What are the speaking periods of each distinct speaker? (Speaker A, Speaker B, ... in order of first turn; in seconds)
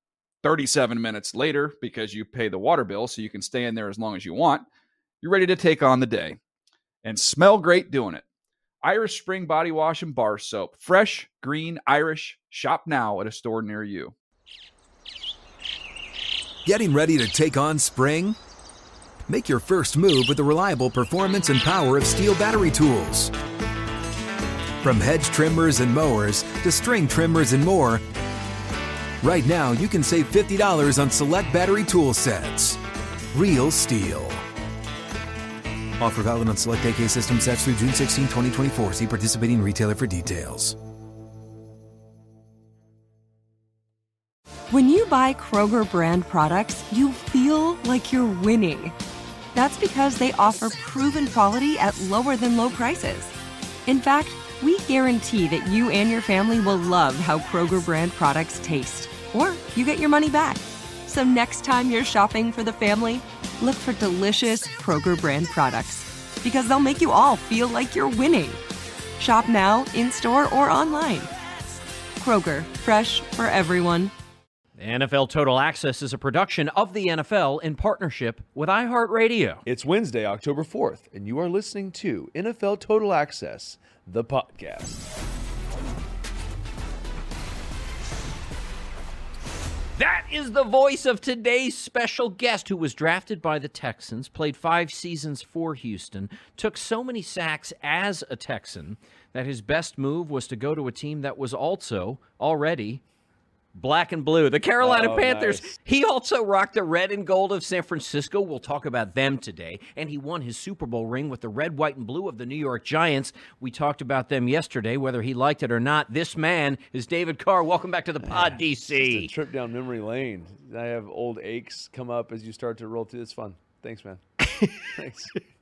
Speaker A: 0.4-4.7, 5.2-6.4, 7.0-8.2, 8.8-14.1
Speaker B: 16.6-18.4, 19.3-23.3, 24.8-28.0, 29.2-32.8, 33.3-34.4, 36.0-40.8
Speaker C: 44.7-48.9, 49.5-53.3, 53.9-68.6, 69.2-71.3, 72.2-74.1
Speaker D: 74.8-79.6, 90.0-103.0, 103.7-119.3, 124.4-124.8
Speaker E: 79.7-85.0, 104.8-105.8, 118.2-124.2, 124.9-125.4